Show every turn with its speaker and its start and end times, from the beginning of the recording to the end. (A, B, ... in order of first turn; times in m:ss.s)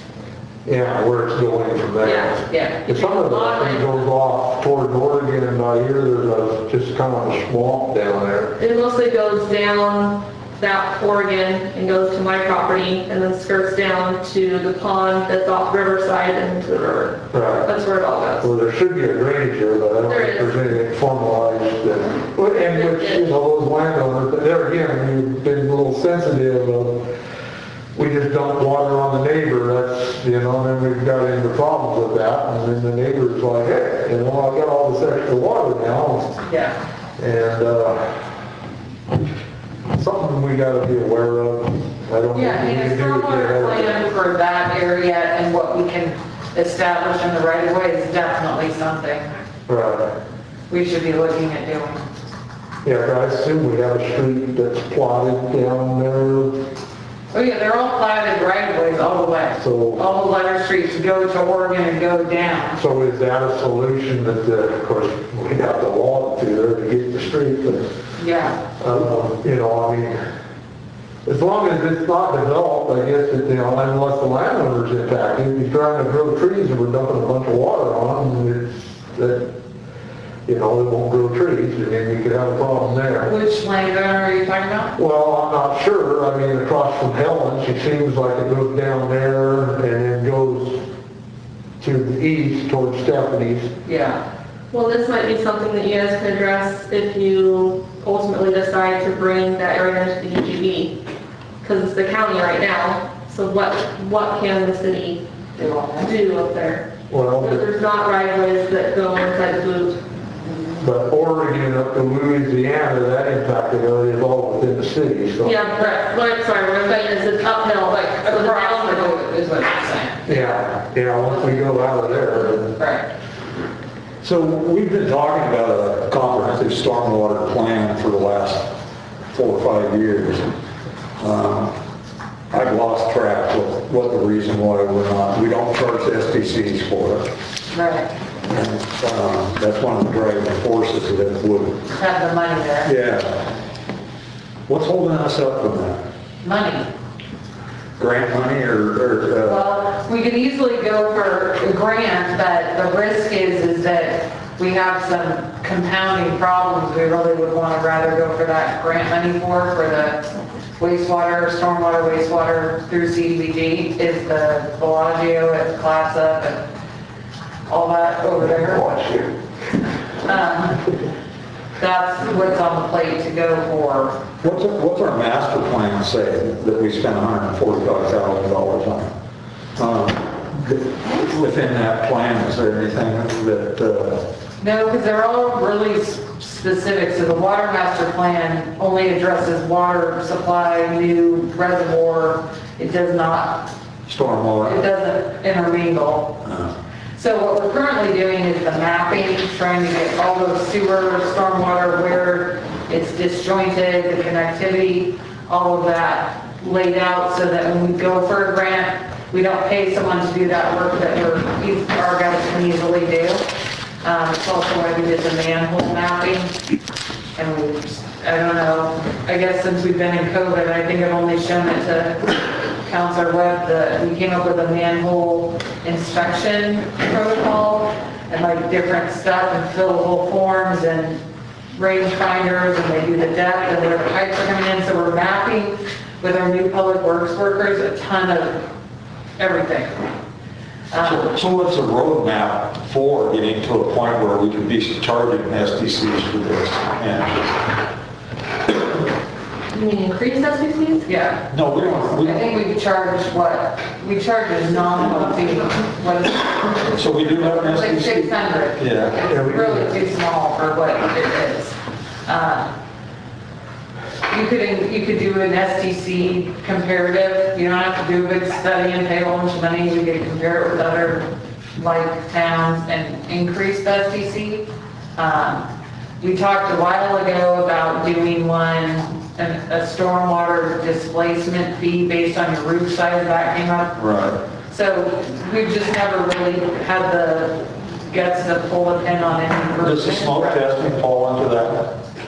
0:00.6-0:08.6 A
0:02.0-0:02.3 B
0:02.5-0:02.8 C
0:02.8-0:04.1 B
0:08.6-0:18.5 B
0:17.3-0:17.7 A
0:18.4-0:27.1 A
0:20.0-0:20.6 B
0:22.6-0:23.3 B
0:27.9-0:36.4 A
0:36.4-0:36.8 C
0:37.2-0:38.2 A
0:39.9-0:43.9 A
0:42.3-0:49.3 C
0:49.7-0:50.1 A
0:50.7-0:52.1 C
0:52.8-0:56.7 A
0:57.3-1:02.8 C
0:59.6-1:00.0 A
1:02.8-1:07.9 A
1:08.2-1:08.6 C
1:08.8-1:10.2 A
1:11.2-1:19.5 A
1:20.5-1:23.3 A
1:23.2-1:24.9 C
1:25.0-1:30.9 A
1:31.8-1:33.7 A
1:33.8-1:34.2 C
1:34.7-1:41.0 B
1:41.6-1:45.2 B
1:45.6-1:46.2 C
1:46.0-1:46.9 B
1:47.1-1:47.6 A
1:47.4-1:50.0 B
1:50.8-1:55.6 A
1:55.4-1:59.2 B
1:55.8-1:56.2 C
1:57.6-2:00.3 C
2:00.3-2:02.8 A
2:01.2-2:03.1 C
2:04.2-2:08.7 D
2:09.3-2:10.5 D
2:11.2-2:11.7 D
2:12.5-2:17.3 D
2:17.7-2:18.1 C
2:18.5-2:21.8 D
2:21.9-2:22.9 C
2:22.8-2:23.5 D
2:24.7-2:26.0 D
2:26.4-2:26.9 C
2:28.0-2:29.6 D
2:29.4-2:46.7 C
2:47.7-2:49.1 C
2:48.7-2:49.2 A
2:50.2-2:50.8 C
2:51.8-2:54.2 C
2:54.4-2:59.1 D
2:59.8-3:04.3 D
3:04.6-3:13.7 C
3:14.1-3:14.8 D
3:14.6-3:16.4 C
3:16.4-3:16.7 D
3:17.2-3:33.4 C
3:34.0-3:36.5 C
3:37.4-3:51.2 C
3:51.7-3:58.6 C
3:59.4-4:00.1 C
4:00.9-4:01.3 C
4:01.0-4:07.7 D
4:09.7-4:11.1 B
4:11.1-4:22.7 C
4:11.5-4:12.5 D
4:16.9-4:19.2 D
4:19.3-4:19.9 A
4:24.3-4:35.7 C
4:36.2-4:44.0 C
4:44.0-4:44.4 D
4:44.7-4:50.6 C
4:49.8-4:52.0 D